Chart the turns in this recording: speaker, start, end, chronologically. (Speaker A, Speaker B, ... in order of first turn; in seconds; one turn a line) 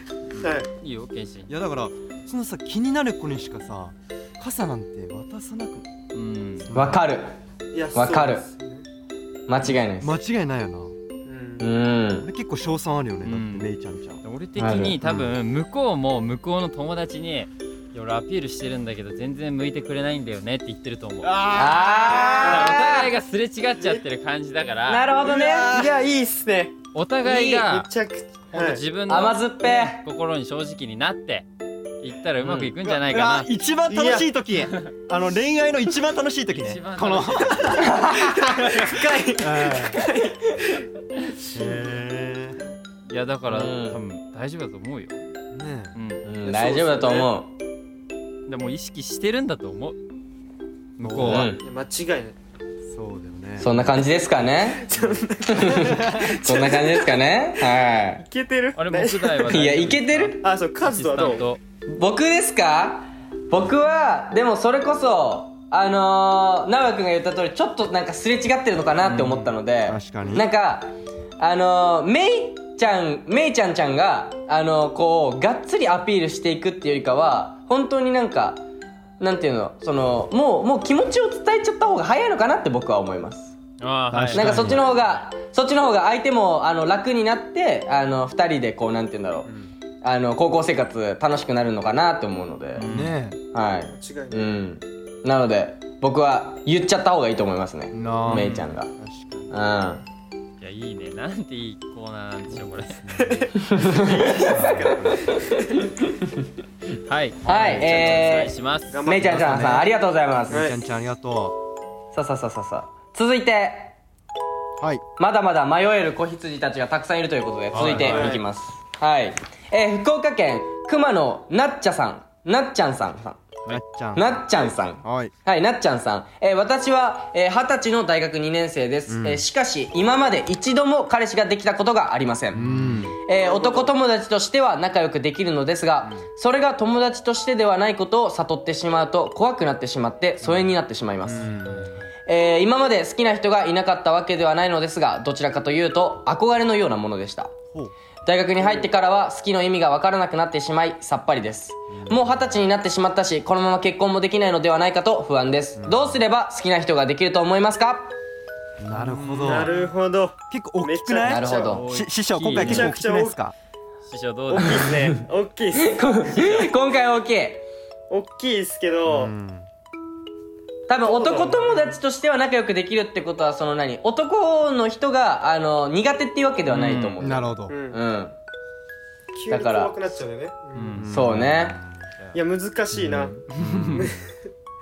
Speaker A: 0.3-0.6
Speaker B: 0.4-0.7
Speaker C: 0.7-1.5
Speaker A: 1.5-5.9
Speaker C: 6.1-6.7
Speaker A: 6.6-7.0
Speaker D: 6.7-7.3
Speaker B: 7.7-8.8
Speaker D: 7.9-8.4
Speaker D: 9.5-10.1
Speaker A: 10.0-10.9
Speaker B: 11.2-11.7
Speaker D: 11.6-12.3
Speaker A: 12.2-14.2
Speaker C: 13.2-13.7
Speaker C: 14.2-21.5
Speaker D: 14.6-15.0
Speaker A: 21.2-22.7
Speaker D: 21.5-23.1
Speaker C: 22.4-25.1
Speaker D: 24.9-25.8
Speaker A: 25.2-26.0
Speaker B: 25.4-28.8
Speaker C: 26.9-27.9
Speaker C: 28.5-31.5
Speaker D: 29.1-30.0
Speaker C: 32.0-33.5
Speaker A: 32.4-40.0
Speaker B: 33.9-34.3
Speaker C: 36.5-37.9
Speaker D: 37.8-38.3
Speaker B: 37.8-40.9
Speaker A: 41.5-42.6
Speaker B: 41.5-41.8
Speaker C: 43.1-45.2
Speaker D: 43.5-44.0
Speaker A: 45.5-46.0
Speaker C: 46.0-46.2
Speaker D: 46.2-47.5
Speaker B: 46.4-47.3
Speaker C: 48.5-50.0
Speaker C: 51.0-51.5
Speaker A: 51.0-51.5
Speaker D: 51.2-51.6
Speaker B: 51.6-52.4
Speaker A: 52.9-54.0
Speaker D: 53.6-54.9
Speaker B: 54.7-57.2
Speaker D: 55.5-58.2
Speaker A: 55.8-56.4
Speaker B: 58.2-59.6
Speaker C: 58.8-61.6
Speaker D: 59.5-60.4
Speaker B: 60.4-61.5
Speaker D: 61.9-78.6
Speaker C: 69.0-69.5
Speaker A: 69.9-70.5
Speaker D: 79.2-83.5
Speaker C: 83.8-84.9
Speaker A: 84.1-84.8
Speaker D: 84.3-89.5
Speaker A: 89.5-89.7
Speaker D: 90.0-92.8
Speaker C: 92.8-93.2
Speaker A: 92.8-93.4
Speaker D: 93.5-98.9
Speaker B: 93.9-94.5
Speaker A: 97.9-99.5
Speaker C: 98.3-98.7
Speaker D: 99.5-100.0
Speaker C: 100.6-103.0
Speaker A: 102.5-105.3
Speaker B: 103.2-103.5
Speaker D: 103.6-104.6
Speaker B: 105.3-105.7
Speaker C: 107.1-109.0
Speaker A: 107.5-108.2
Speaker D: 107.5-110.6
Speaker B: 108.9-109.8
Speaker A: 109.2-109.9
Speaker A: 110.5-111.6
Speaker B: 110.5-110.8
Speaker D: 112.1-113.9
Speaker A: 114.8-115.0
Speaker D: 115.2-123.6
Speaker C: 117.7-118.4
Speaker B: 117.9-118.4
Speaker A: 123.7-125.3
Speaker D: 124.2-141.5
Speaker A: 129.1-129.5
Speaker A: 132.5-133.2
Speaker B: 133.3-133.9
Speaker A: 140.4-140.7
Speaker A: 141.2-142.0
Speaker C: 141.4-142.1
Speaker D: 142.3-147.6
Speaker D: 148.2-158.2
Speaker B: 148.6-148.9
Speaker A: 151.9-152.6
Speaker A: 155.8-156.2
Speaker A: 158.8-159.7
Speaker C: 158.9-159.9
Speaker B: 159.4-161.8
Speaker A: 160.5-163.5
Speaker D: 161.2-161.8
Speaker C: 161.7-162.9
Speaker B: 162.6-163.4
Speaker C: 164.1-164.9
Speaker B: 164.5-166.0
Speaker D: 164.7-165.0
Speaker D: 165.8-167.7
Speaker C: 166.2-166.7
Speaker B: 168.1-169.3
Speaker A: 169.1-169.7
Speaker D: 170.9-178.3
Speaker B: 171.0-172.0
Speaker C: 176.7-177.2
Speaker A: 177.2-177.8
Speaker B: 177.7-178.0
Speaker B: 179.3-181.0
Speaker D: 179.5-180.2
Speaker C: 180.8-181.1
Speaker A: 181.0-182.1
Speaker D: 181.1-181.8
Speaker B: 182.3-183.4
Speaker A: 183.0-184.3
Speaker C: 183.6-184.1
Speaker B: 184.0-184.3